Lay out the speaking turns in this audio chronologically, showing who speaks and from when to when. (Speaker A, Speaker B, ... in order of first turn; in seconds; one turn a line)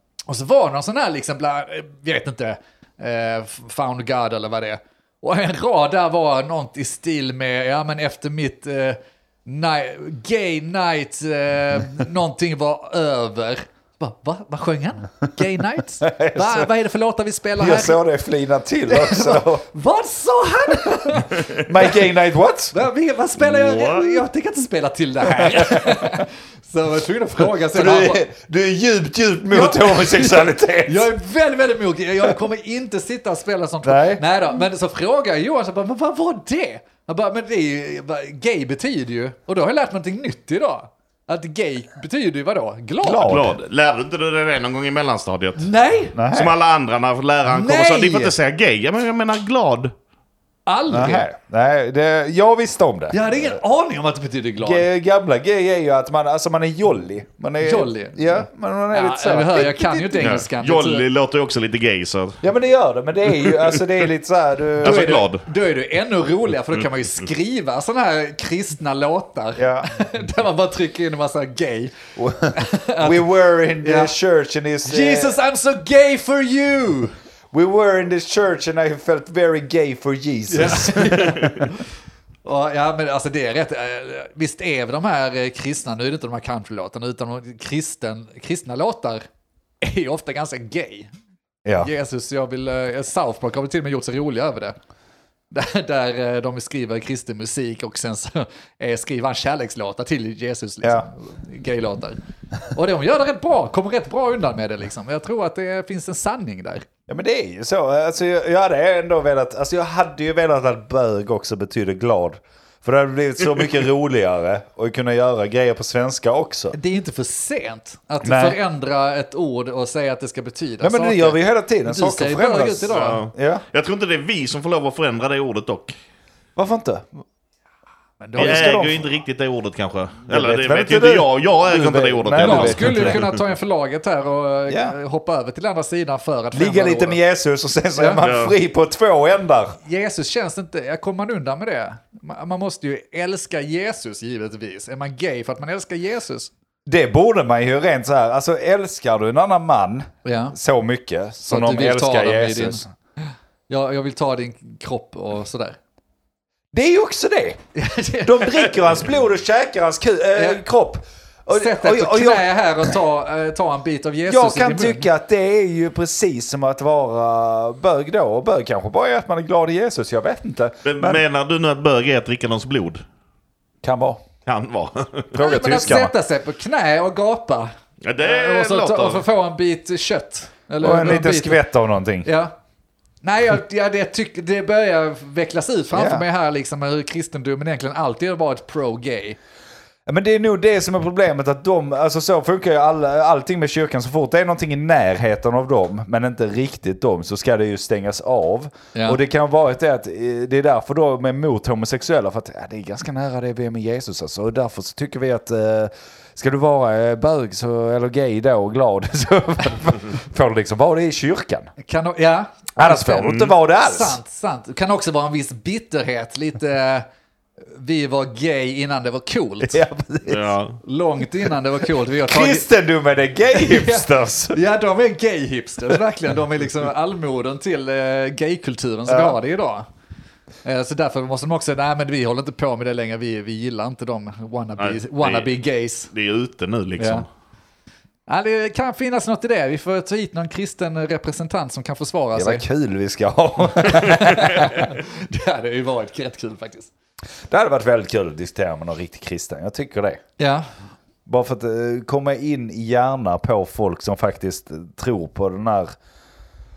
Speaker A: 0.3-18.0
Speaker B: 16.0-16.7
Speaker B: 17.6-19.6
Speaker A: 18.9-22.0
Speaker B: 21.1-22.8
Speaker A: 22.7-28.2
Speaker C: 23.4-24.2
Speaker B: 25.4-26.2
Speaker B: 27.6-31.1
Speaker A: 29.5-43.4
Speaker B: 33.8-34.2
Speaker B: 43.0-43.6
Speaker C: 43.2-45.7
Speaker A: 45.6-46.2
Speaker B: 46.1-46.5
Speaker C: 46.3-49.9
Speaker A: 47.5-48.3
Speaker A: 50.7-51.3
Speaker B: 50.9-53.6
Speaker A: 53.1-54.8
Speaker B: 54.6-60.3
Speaker A: 57.6-58.3
Speaker A: 58.9-61.0
Speaker C: 60.2-62.4
Speaker B: 62.4-65.2
Speaker C: 63.3-63.8
Speaker C: 64.8-65.5
Speaker A: 64.8-71.9
Speaker B: 69.6-69.9
Speaker B: 72.2-75.3
Speaker A: 72.5-74.1
Speaker A: 74.8-77.1
Speaker B: 77.5-81.7
Speaker A: 80.5-81.8
Speaker A: 82.4-89.2
Speaker A: 89.8-91.1
Speaker A: 91.8-94.7
Speaker A: 95.5-102.2
Speaker A: 102.7-106.8
Speaker B: 107.1-116.8
Speaker A: 116.7-123.2
Speaker B: 118.2-118.6
Speaker B: 120.8-123.6
Speaker C: 122.9-126.0
Speaker B: 126.5-127.2
Speaker A: 128.2-128.8
Speaker B: 128.3-129.1
Speaker C: 128.4-133.3
Speaker B: 130.3-133.2
Speaker A: 132.3-137.2
Speaker B: 134.7-134.9
Speaker B: 136.5-139.8
Speaker A: 137.9-138.2
Speaker C: 138.2-138.5
Speaker A: 139.8-146.5
Speaker B: 146.8-152.9
Speaker A: 150.2-150.6
Speaker A: 151.5-152.8
Speaker A: 153.7-155.8
Speaker B: 156.7-157.6
Speaker A: 157.7-158.8
Speaker B: 158.2-162.9
Speaker A: 160.3-160.6
Speaker A: 161.5-165.1
Speaker B: 164.3-171.2
Speaker C: 170.8-173.0
Speaker B: 173.8-174.2
Speaker C: 174.4-175.3
Speaker B: 175.3-176.1
Speaker A: 175.4-181.6
Speaker C: 178.0-179.2
Speaker B: 180.8-182.3
Speaker A: 182.2-182.5
Speaker A: 183.2-189.4
Speaker B: 185.9-186.2
Speaker B: 190.1-211.7
Speaker A: 198.9-199.2
Speaker A: 211.8-217.1
Speaker B: 212.8-214.2
Speaker C: 213.2-213.5
Speaker A: 217.7-219.8
Speaker B: 219.6-220.5
Speaker C: 220.3-220.8
Speaker A: 220.8-222.7
Speaker B: 222.2-224.6
Speaker A: 223.5-229.8
Speaker B: 229.1-229.4
Speaker A: 230.6-236.1
Speaker C: 234.8-235.5
Speaker C: 236.1-237.3
Speaker A: 237.0-237.2
Speaker A: 238.3-242.7
Speaker B: 242.3-244.8
Speaker A: 243.8-246.9
Speaker B: 247.5-250.2
Speaker A: 250.4-250.7
Speaker B: 251.2-255.9